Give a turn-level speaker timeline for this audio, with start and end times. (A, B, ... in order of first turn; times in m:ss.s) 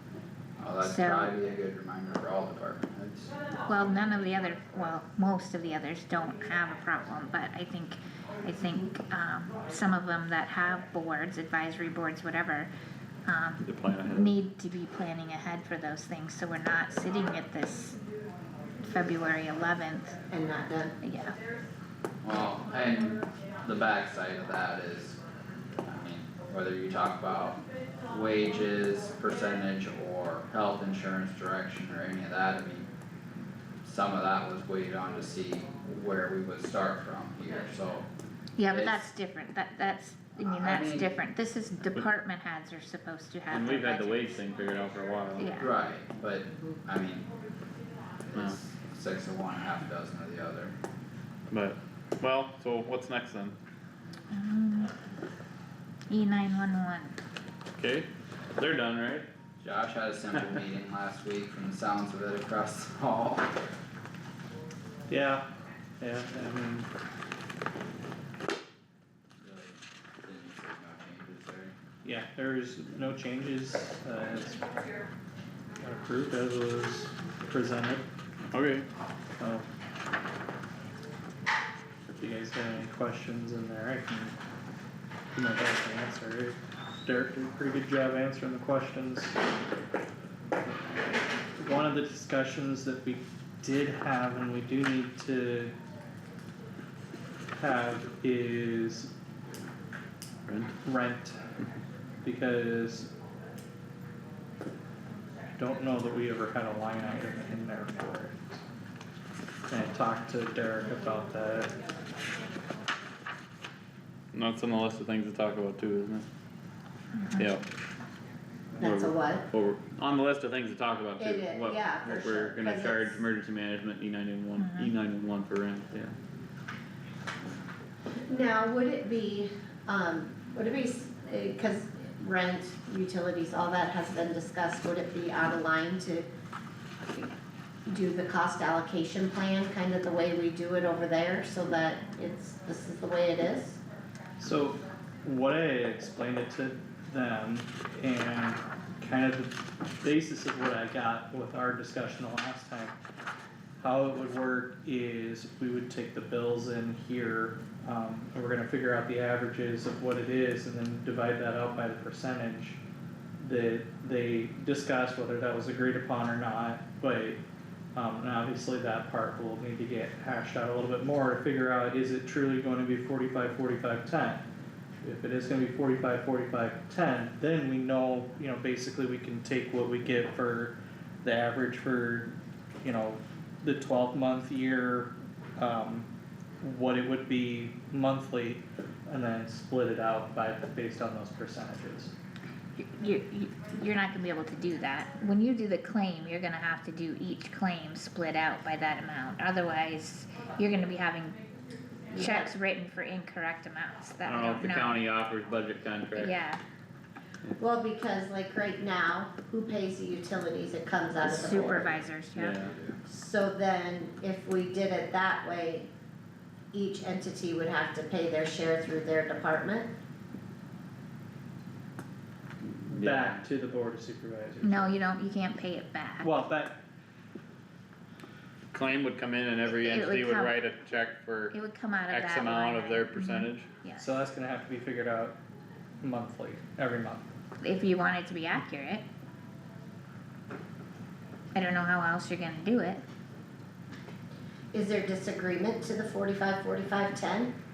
0:00.6-0:03.3 A
0:00.8-0:01.3 B
0:03.7-0:12.7 B
0:13.3-0:18.0 B
0:13.6-0:14.4 C
0:18.8-0:20.2 B
0:20.3-0:21.0 D
0:21.0-0:21.4 B
0:22.2-0:25.2 A
0:25.8-0:32.9 A
0:33.8-0:38.1 A
0:38.6-0:44.4 B
0:38.7-0:39.0 A
0:40.4-0:41.1 A
0:43.5-0:45.5 C
0:45.4-0:45.7 B
0:45.6-0:47.3 A
0:48.3-0:50.8 A
0:51.5-0:53.6 C
0:54.3-0:54.9 B
0:56.1-0:57.2 B
0:57.8-0:59.3 C
0:59.6-1:03.5 A
1:05.1-1:05.5 E
1:06.0-1:06.9 E
1:09.4-1:11.7 A
1:12.0-1:14.7 E
1:15.8-1:18.1 E
1:18.5-1:18.9 C
1:19.4-1:19.7 E
1:22.1-1:24.4 E
1:25.3-1:29.4 E
1:31.6-1:35.7 E
1:37.6-1:39.1 E
1:40.5-1:40.7 C
1:40.8-1:41.4 E
1:42.2-1:43.1 E
1:45.6-1:48.6 E
1:49.7-1:51.8 E
1:54.3-1:56.3 C
1:57.2-1:57.5 B
1:57.4-1:57.6 C
1:58.8-1:59.4 D
1:58.8-2:06.1 C
2:01.2-2:03.2 D
2:04.6-2:04.9 B
2:08.3-2:16.3 D
2:17.9-2:23.8 D
2:24.4-2:33.0 E
2:33.8-2:42.8 E
2:43.4-2:47.4 E
2:48.0-2:54.4 E
2:55.0-3:06.1 E
3:06.6-3:12.1 E
3:12.8-3:21.4 B
3:22.1-3:25.0 B
3:22.2-3:22.5 D
3:24.2-3:26.4 C
3:26.2-3:26.6 B
3:27.6-3:31.9 D
3:31.2-3:32.6 B
3:32.4-3:32.7 C
3:32.6-3:33.0 A
3:33.1-3:35.9 D
3:36.7-3:39.9 D
3:42.9-3:45.0 E
3:42.9-3:43.4 C
3:44.6-3:46.4 B
3:46.2-3:46.8 E
3:48.7-3:51.6 C
3:49.7-3:50.6 B
3:51.5-3:54.1 B
3:52.1-3:53.7 C
3:54.0-3:55.4 E
3:56.0-3:57.3 E
3:57.6-3:59.0 B
4:01.5-4:03.0 B
4:04.7-4:07.5 D